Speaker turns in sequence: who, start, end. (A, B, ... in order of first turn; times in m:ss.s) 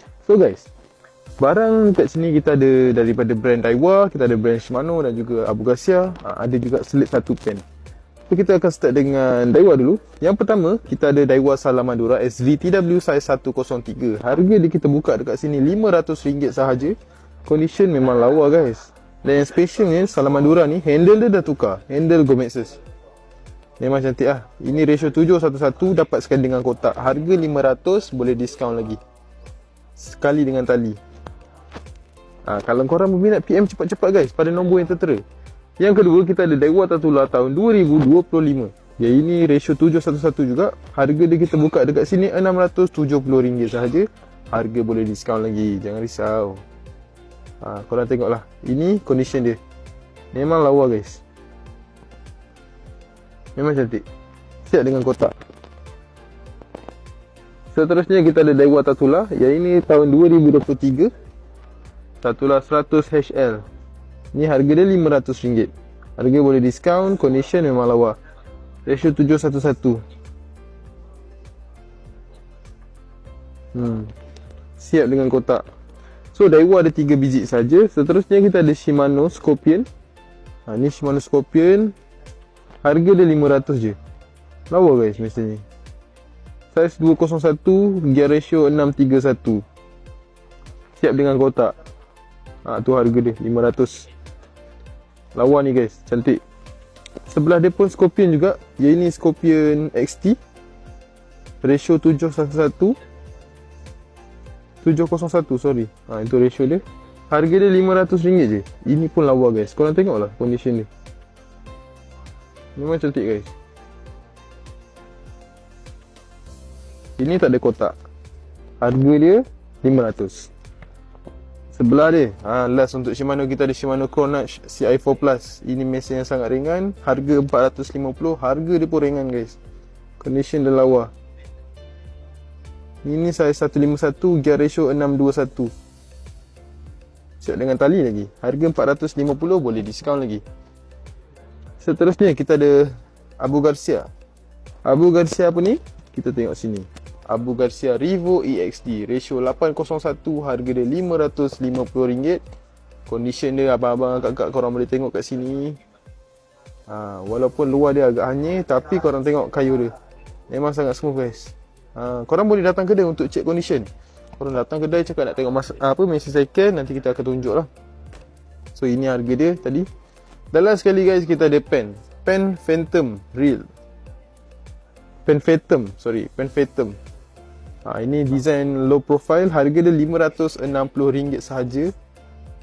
0:00.2-0:00.7 A
0:01.4-0:07.6 A
0:08.3-0:22.8 A
0:23.8-0:29.0 A
0:30.0-0:31.0 A
0:32.4-0:35.2 A
0:35.8-0:46.6 A
0:47.6-0:49.6 A
0:50.3-0:51.2 A
0:53.6-0:54.0 A
0:54.6-0:55.3 A
0:57.7-1:01.1 A
1:02.2-1:03.6 A
1:04.3-1:08.2 A
1:08.8-1:10.0 A
1:13.7-1:14.1 A
1:14.8-1:15.6 A
1:16.3-1:19.8 A
1:20.7-1:21.9 A
1:22.8-1:24.0 A
1:24.7-1:25.6 A
1:26.7-1:29.6 A
1:31.0-1:31.7 A
1:32.6-1:34.1 A
1:35.3-1:36.4 A
1:37.2-1:40.4 A
1:41.6-1:43.0 A
1:44.8-1:50.9 A
1:52.8-1:53.5 A
1:57.2-1:57.9 A
1:58.8-2:00.5 A
2:01.7-2:09.6 A
2:10.2-2:11.1 A
2:13.0-2:15.7 A
2:17.4-2:20.4 A
2:21.8-2:24.1 A
2:24.8-2:32.4 A
2:33.1-2:35.8 A
2:36.9-2:39.9 A
2:40.5-2:47.7 A
2:48.7-2:49.9 A
2:50.5-2:53.7 A
2:55.2-2:57.0 A
2:57.8-3:01.9 A